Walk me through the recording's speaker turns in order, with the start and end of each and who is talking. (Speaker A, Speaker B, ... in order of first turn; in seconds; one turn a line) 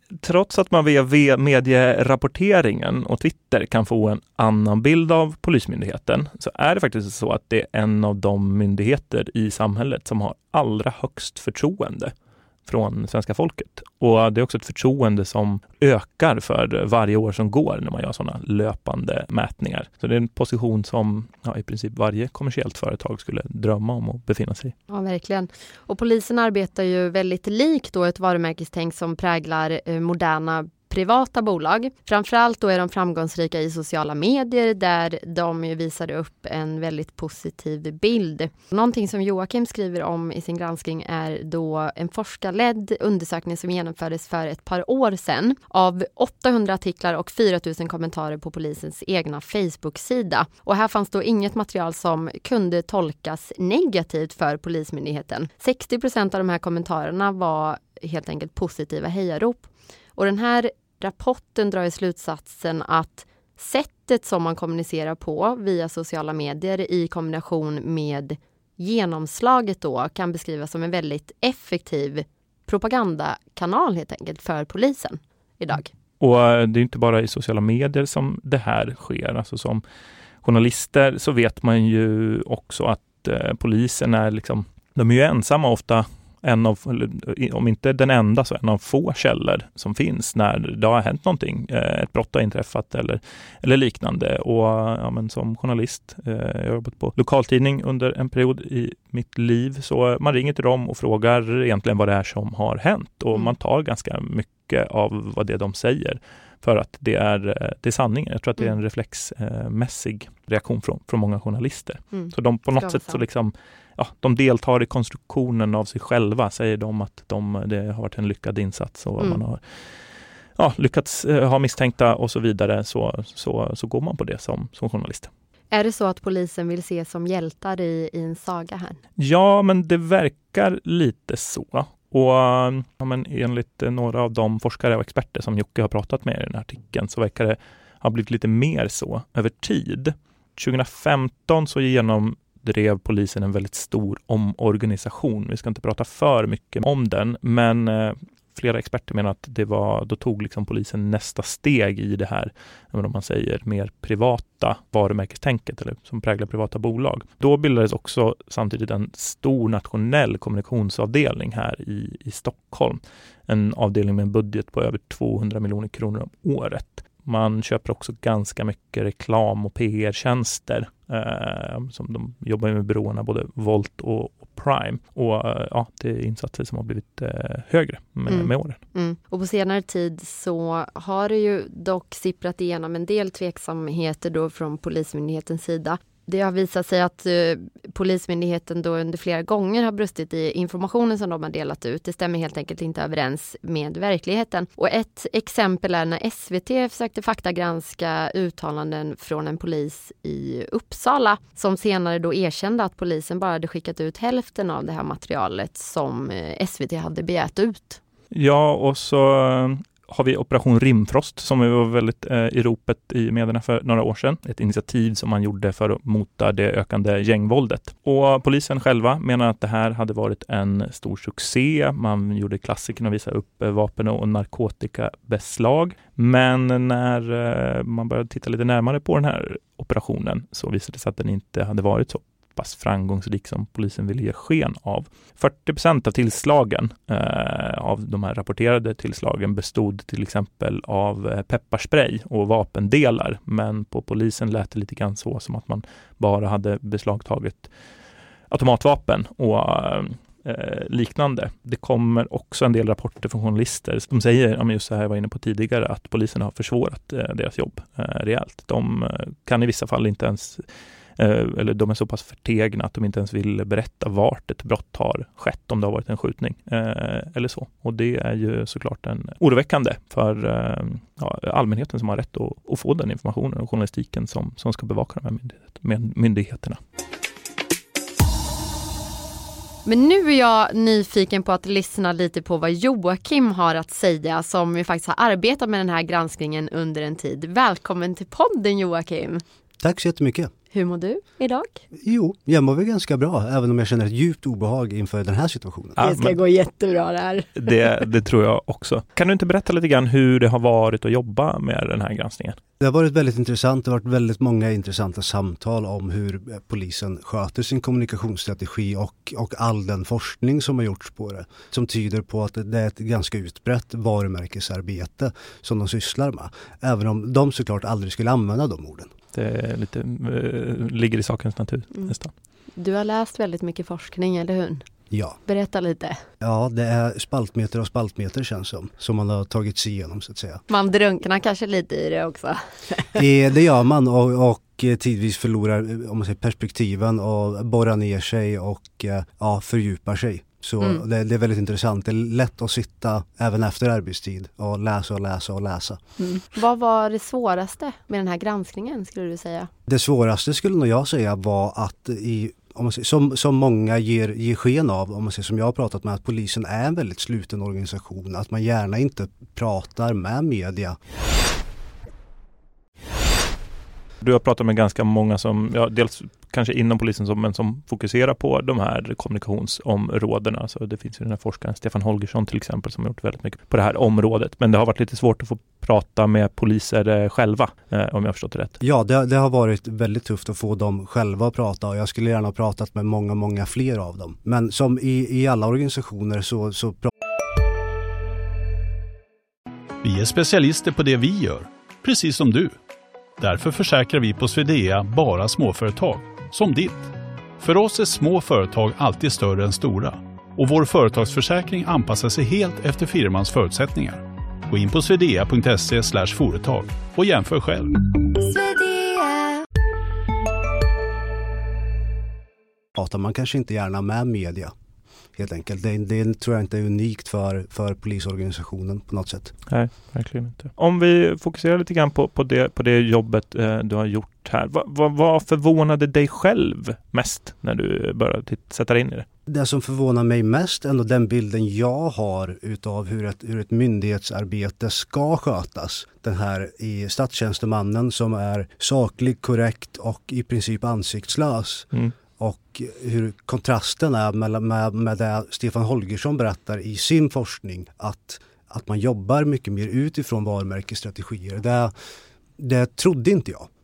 Speaker A: 0.2-12.1
Speaker A: 12.7-24.7
Speaker B: 24.9-75.9
Speaker A: 76.2-79.8
Speaker A: 80.4-119.8
Speaker B: 112.1-113.2
Speaker A: 120.6-125.3
Speaker B: 125.7-129.0
Speaker A: 129.2-178.8
Speaker B: 178.3-208.0
Speaker A: 208.3-247.7
Speaker A: 248.5-260.6
Speaker A: 261.2-276.8
Speaker B: 279.8-289.4
Speaker C: 289.8-290.5
Speaker B: 290.7-291.8
Speaker C: 291.9-296.0
Speaker A: 296.0-296.4
Speaker B: 296.0-297.7
Speaker A: 297.5-302.6
Speaker C: 302.8-319.1
Speaker A: 319.3-322.3
Speaker B: 322.8-324.8
Speaker C: 325.1-325.4
Speaker B: 325.4-326.2
Speaker C: 326.4-330.6
Speaker B: 330.7-333.2
Speaker C: 333.1-346.0
Speaker B: 346.2-349.7
Speaker C: 349.9-361.0
Speaker A: 364.2-378.8
Speaker C: 378.8-387.1
Speaker D: 390.0-392.8
Speaker D: 393.4-407.9
Speaker B: 408.4-409.6
Speaker C: 412.9-414.7
Speaker C: 415.4-419.5
Speaker A: 419.7-429.2
Speaker C: 429.5-451.9
Speaker C: 452.6-453.7